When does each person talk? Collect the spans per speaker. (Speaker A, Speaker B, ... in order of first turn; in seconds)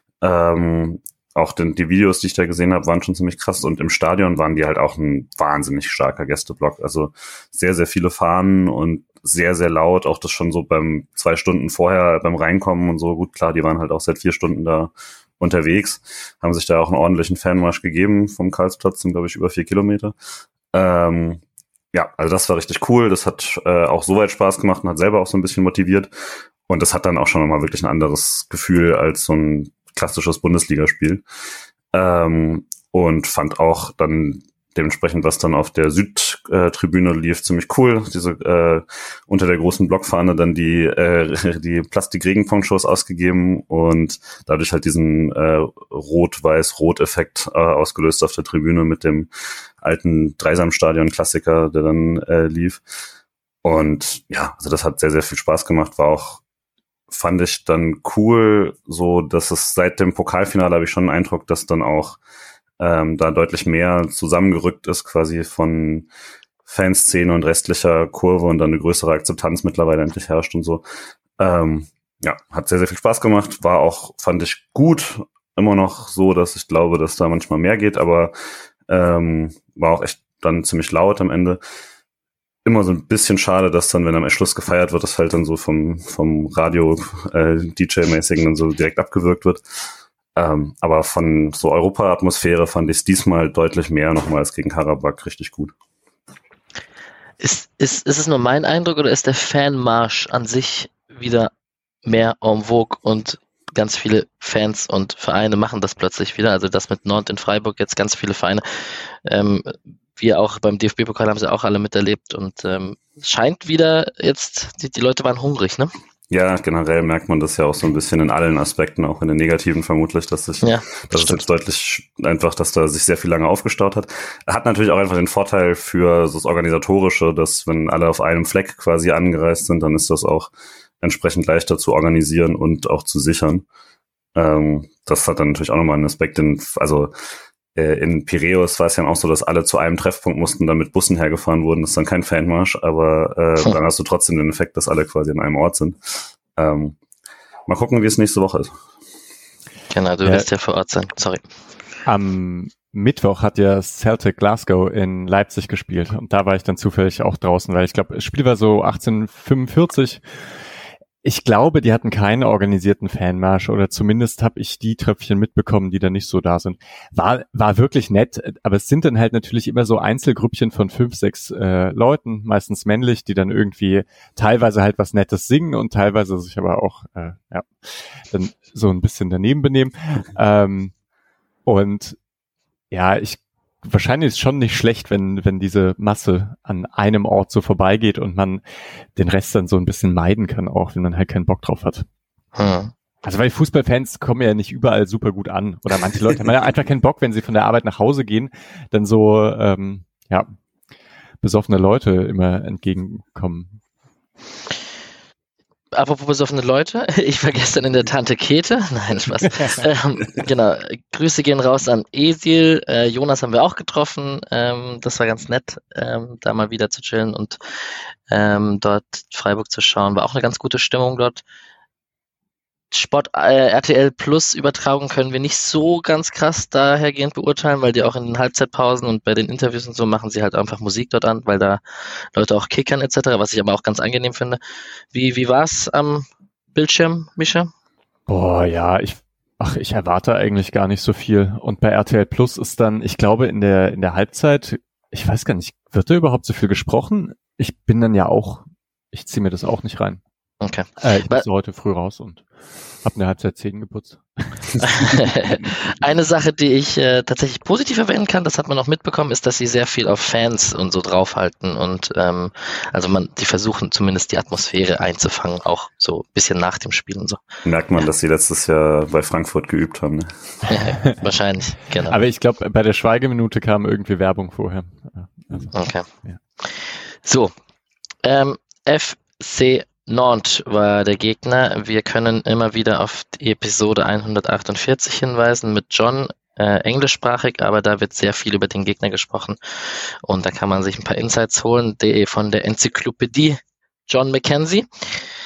Speaker A: 0.2-20.1, 20.7-21.4, 21.9-26.1, 26.7-31.2, 31.9-49.3, 49.8-52.8, 53.6-56.4, 57.1-62.2, 62.8-66.1, 66.7-70.8, 71.4-78.3, 78.9-81.6, 82.6-89.6, 90.3-95.7, 116.3-130.5, 131.0-133.6, 134.3-137.1, 137.7-147.0, 147.7-148.8, 267.6-270.3
Speaker B: 97.4-101.5, 102.0-115.9, 120.6-121.4, 149.9-151.4, 192.6-192.9, 205.9-217.6, 218.3-221.4, 222.9-234.6, 235.1-237.7, 250.6-251.4, 254.8-267.4, 270.7-272.1, 275.7-276.1, 276.6-277.5, 278.2-295.3
Speaker C: 152.1-160.2, 161.2-180.9, 181.7-182.2, 182.9-188.6, 189.1-192.1, 193.2-200.5, 201.4-203.8, 238.3-250.2, 251.0-252.5, 253.0-255.3, 272.1-275.7